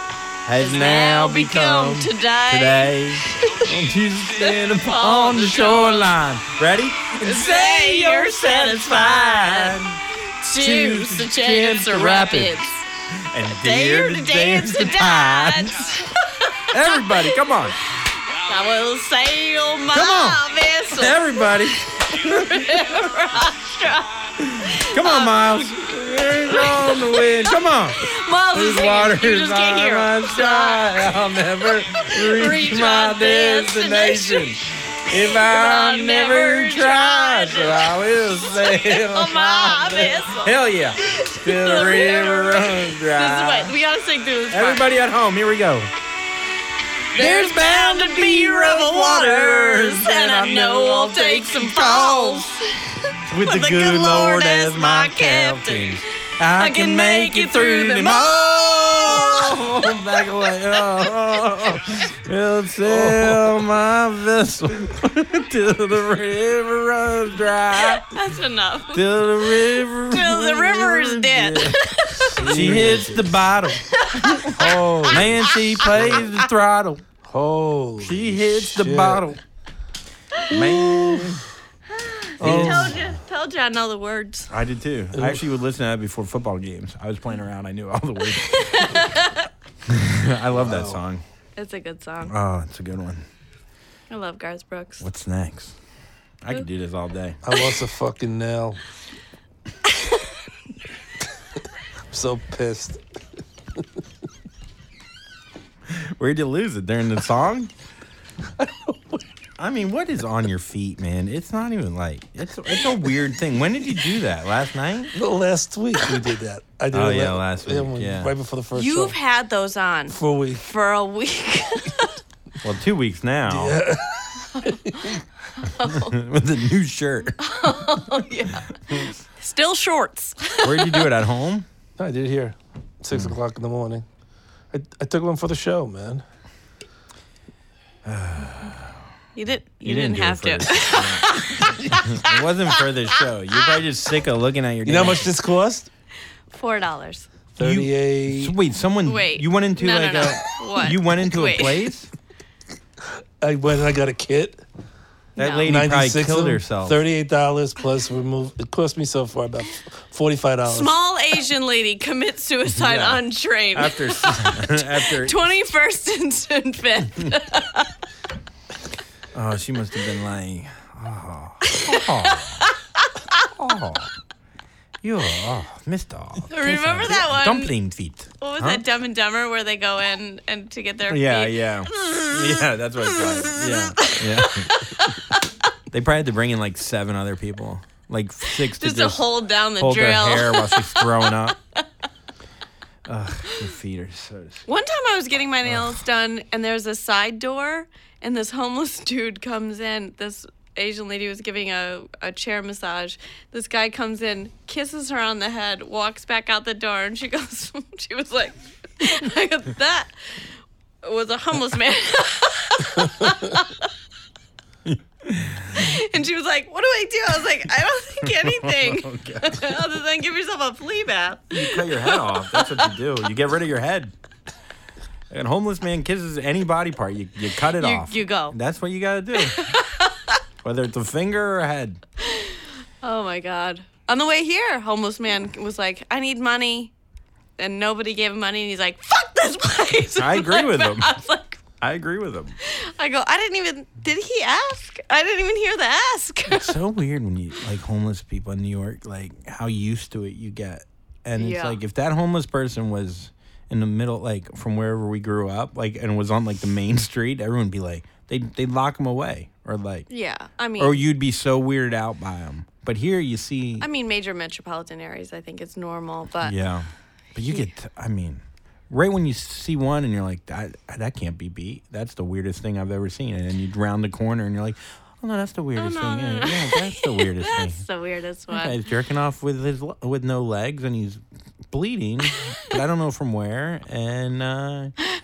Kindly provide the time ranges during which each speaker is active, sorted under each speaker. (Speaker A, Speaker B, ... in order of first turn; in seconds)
Speaker A: 0.5-10.0, 10.6-16.0, 16.7-17.8, 19.9-23.1, 24.4-43.8, 44.5-45.9, 47.1-52.5, 53.3-68.2, 68.9-77.0, 78.0-79.4, 80.5-81.4, 82.4-83.2, 84.5-89.0, 89.9-91.2, 92.2-93.2, 95.0-95.8, 96.4-97.4, 105.9-107.7, 109.6-115.1, 116.9-118.3, 122.6-123.8, 125.8-127.4, 130.6-131.7, 138.1-139.0, 139.7-145.3, 147.6-152.1, 155.4-157.0, 162.7-165.4, 169.3-172.6, 173.5-174.1, 175.0-178.8, 181.1-185.1, 185.9-191.6, 193.1-194.7, 214.8-216.0, 218.2-219.8, 221.5-224.1, 225.3-229.7, 230.6-232.0, 240.2-241.2, 241.8-242.6, 246.5-260.1, 260.8-263.9, 266.4-277.8, 278.5-284.9
Speaker B: 0.6-3.7, 4.4-6.2, 7.1-9.8, 10.4-12.8, 13.4-17.4, 18.3-44.9, 47.1-56.0, 56.6-60.2, 68.0-69.2, 69.8-72.4, 73.9-76.4, 81.9-84.5, 88.4-89.5, 91.6-92.3, 94.1-95.1, 99.9-100.2, 118.7-122.2, 124.6-125.0, 125.6-126.2, 127.4-131.1, 139.4-142.4, 146.5-147.3, 149.1-151.9, 155.4-155.7, 160.7-167.9, 171.7-173.0, 176.5-177.7, 178.4-185.4, 188.5-191.5, 194.7-210.4, 211.0-213.9, 215.7-222.9, 227.8-228.6, 229.4-230.4, 232.2-236.9, 237.6-241.6, 242.6-246.8, 251.4-251.8, 260.1-261.0, 263.8-266.6, 267.4-267.7, 275.8-278.8
Speaker C: 62.9-63.7, 72.2-73.4, 74.5-76.3, 77.3-79.4, 80.5-81.5, 82.4-83.0, 85.1-85.4, 90.5-91.0, 97.4-98.8, 102.1-103.0, 108.6-109.2, 115.1-119.2, 120.1-120.6, 123.5-125.2, 132.0-134.1, 134.7-136.2, 144.8-145.9, 147.6-148.6, 153.4-154.6, 155.7-160.9